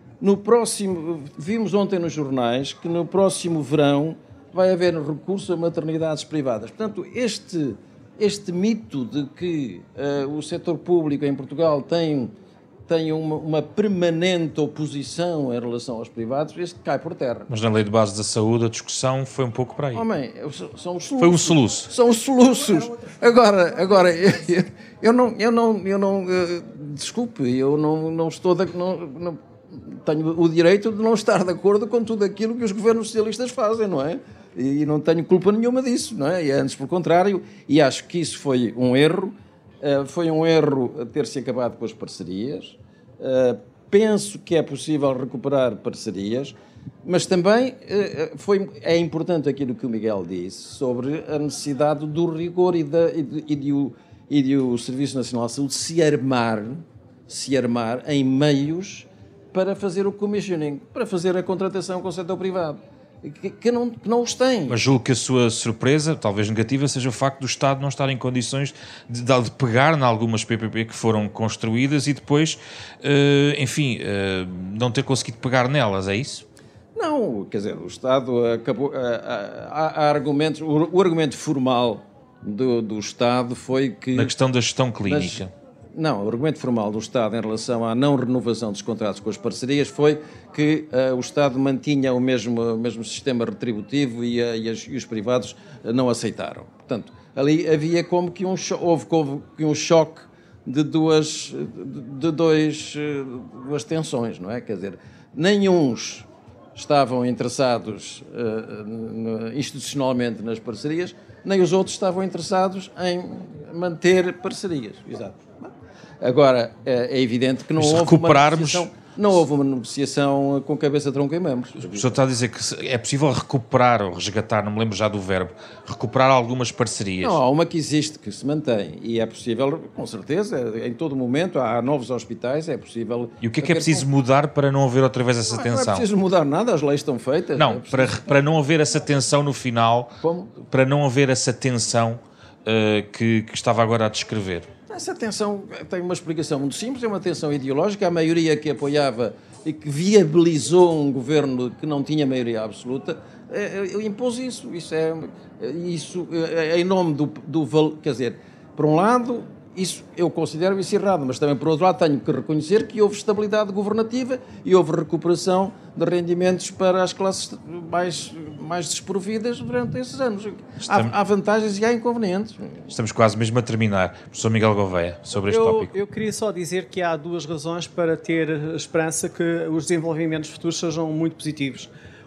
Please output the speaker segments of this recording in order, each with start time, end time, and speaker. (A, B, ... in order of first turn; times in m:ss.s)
0:00.2-0:12.3 A
0:12.9-0:17.5 A
0:17.5-0:20.0 B
0:19.9-1:04.9 A
0:21.2-0:21.9 B
1:04.7-1:16.4 B
1:17.0-1:24.3 A
1:24.2-1:25.5 B
1:25.0-1:25.4 A
1:26.0-2:02.2 A
1:57.8-1:58.9 B
2:01.9-2:07.4 B
2:07.2-2:14.1 A
2:13.4-2:16.1 B
2:15.5-2:18.2 A
2:17.6-2:24.7 B
2:20.2-2:20.5 A
2:24.9-2:52.8 A
2:50.9-2:51.1 B
2:52.9-2:55.9 B
2:55.3-3:01.9 C